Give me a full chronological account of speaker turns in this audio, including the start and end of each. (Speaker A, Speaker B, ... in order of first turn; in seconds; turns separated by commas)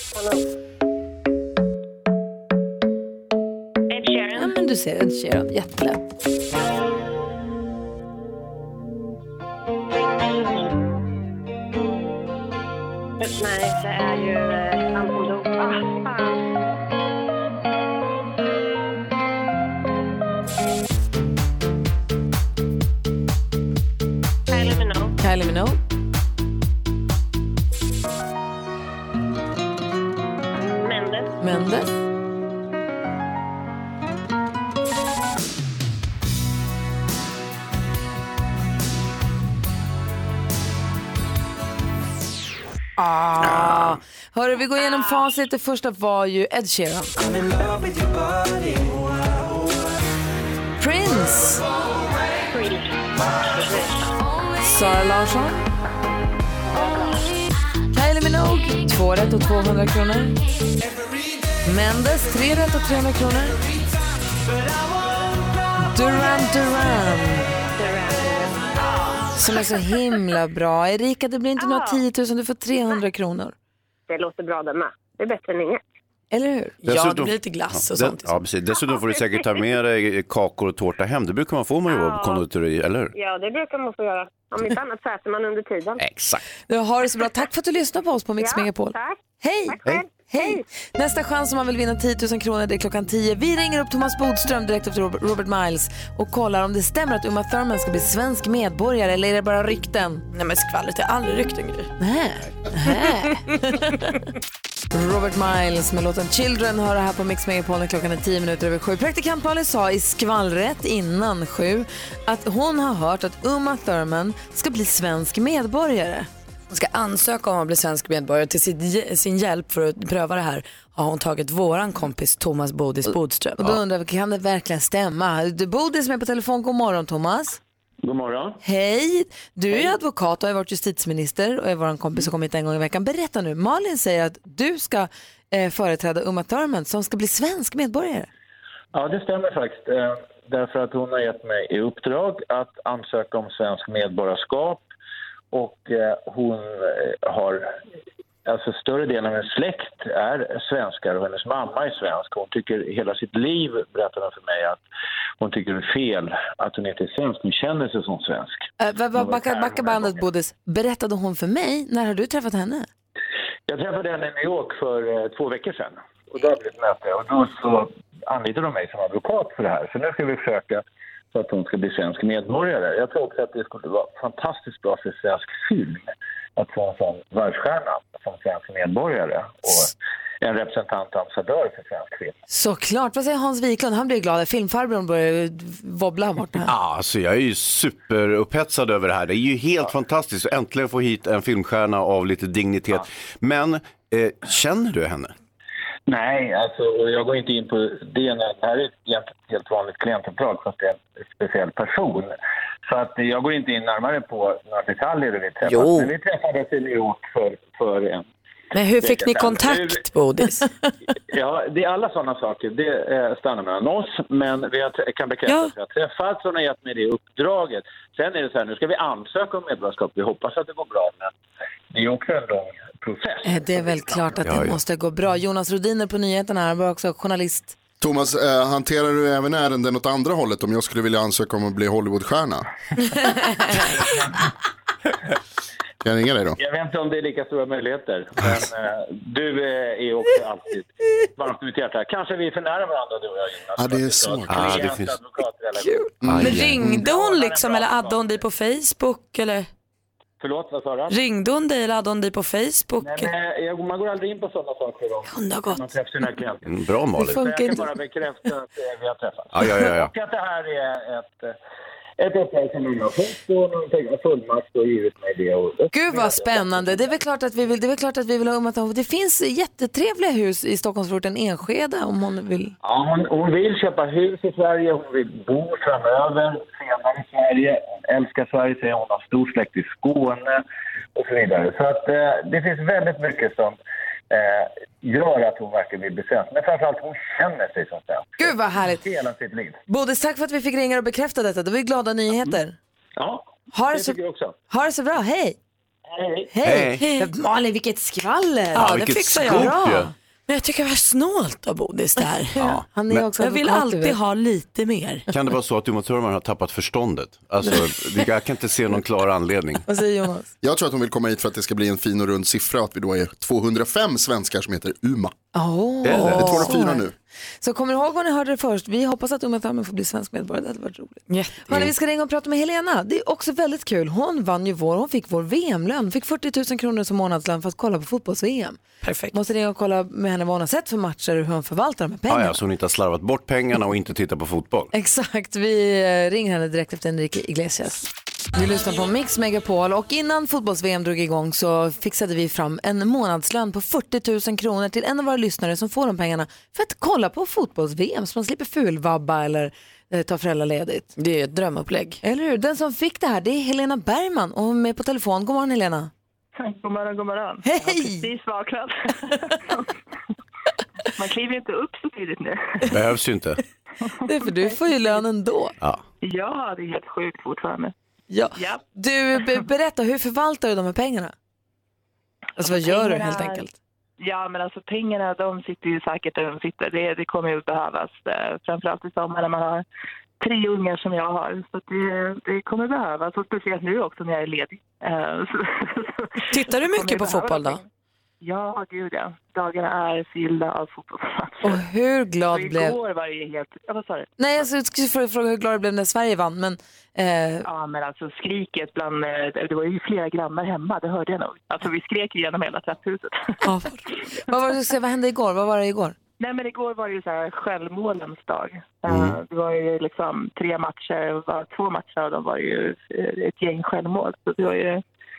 Speaker A: 0.1-0.4, Speaker A: 3.9-4.5, Speaker B: 4.3-6.0, Speaker A: 13.2-16.4, Speaker A: 24.5-25.2, Speaker B: 25.2-25.8, Speaker A: 30.7-31.3, Speaker B: 31.4-31.9, Speaker B: 43.0-47.1, Speaker B: 50.8-51.6, Speaker A: 52.5-52.8, Speaker A: 53.5-54.0, Speaker B: 54.6-55.6, Speaker B: 57.9-60.4, Speaker B: 61.6-63.6, Speaker B: 65.8-67.5, Speaker A: 67.8-68.7, Speaker B: 69.4-73.5, Speaker A: 71.6-72.0, Speaker A: 74.1-75.8, Speaker B: 76.3-76.8, Speaker C: 76.9-78.3, Speaker D: 76.9-83.1, Speaker A: 81.9-82.4, Speaker A: 83.1-86.0, Speaker D: 86.0-86.4, Speaker B: 86.7-100.2, Speaker A: 88.4-90.6, Speaker C: 100.3-101.9, Speaker B: 102.0-103.4, Speaker B: 104.9-116.3, Speaker C: 116.7-123.7, Speaker B: 123.1-127.6, Speaker E: 128.0-128.6, Speaker B: 128.6-138.3, Speaker E: 138.9-144.9, Speaker E: 145.5-147.8, Speaker E: 148.4-154.8, Speaker E: 155.4-160.2, Speaker B: 158.8-162.9, Speaker E: 163.7-182.3, Speaker B: 182.5-186.7, Speaker D: 186.7-195.3, Speaker E: 196.1-202.3, Speaker E: 202.9-208.3, Speaker C: 205.6-206.1, Speaker C: 208.7-210.7, Speaker E: 208.9-210.0, Speaker E: 211.3-221.3, Speaker C: 215.5-215.7, Speaker E: 221.9-224.2, Speaker B: 223.4-227.8, Speaker D: 224.4-224.8, Speaker F: 228.0-232.7, Speaker F: 236.0-236.6, Speaker E: 236.6-246.1, Speaker F: 243.8-244.9, Speaker D: 244.4-245.2, Speaker D: 246.2-246.9, Speaker F: 246.2-246.9, Speaker C: 246.3-249.7, Speaker E: 246.9-248.4, Speaker E: 250.4-251.2, Speaker C: 251.1-253.3, Speaker E: 253.0-261.6, Speaker C: 255.3-255.9, Speaker D: 256.6-257.4, Speaker B: 257.2-257.9, Speaker D: 259.5-260.1, Speaker E: 262.2-267.1, Speaker B: 265.9-272.8, Speaker E: 272.8-280.6, Speaker E: 281.1-283.8, Speaker E: 284.3-289.8, Speaker B: 288.4-289.0, Speaker B: 289.9-292.8, Speaker E: 293.2-294.6, Speaker B: 293.7-294.2, Speaker B: 294.7-295.6, Speaker E: 296.1-296.5, Speaker B: 296.5-300.1, Speaker D: 296.6-297.0, Speaker C: 297.0-297.3, Speaker D: 298.8-300.1, Speaker C: 298.8-299.8, Speaker C: 300.5-302.7, Speaker D: 302.6-303.2, Speaker B: 302.9-304.2, Speaker C: 303.4-305.3, Speaker D: 305.3-309.9, Speaker B: 309.9-310.5, Speaker F: 310.6-315.3, Speaker B: 315.5-317.0, Speaker D: 316.0-316.6, Speaker F: 316.3-317.1, Speaker B: 317.6-328.8, Speaker C: 321.3-321.8, Speaker C: 329.0-329.4, Speaker B: 329.3-332.6, Speaker D: 332.3-334.9, Speaker B: 334.9-351.1, Speaker C: 351.2-352.2, Speaker B: 352.2-356.1, Speaker G: 356.6-359.9, Speaker B: 357.6-358.3, Speaker G: 361.2-362.9, Speaker D: 362.9-363.6, Speaker B: 364.2-365.8, Speaker G: 366.2-367.9, Speaker B: 368.3-371.3, Speaker G: 368.6-368.8, Speaker B: 372.6-373.7, Speaker G: 372.6-373.6, Speaker G: 374.2-379.9, Speaker G: 380.4-387.8, Speaker C: 386.5-387.8, Speaker G: 388.4-391.8, Speaker B: 391.6-393.0, Speaker G: 392.5-394.3, Speaker B: 394.4-397.7, Speaker G: 397.6-403.6, Speaker B: 403.6-406.2, Speaker G: 406.4-415.0, Speaker D: 409.1-409.4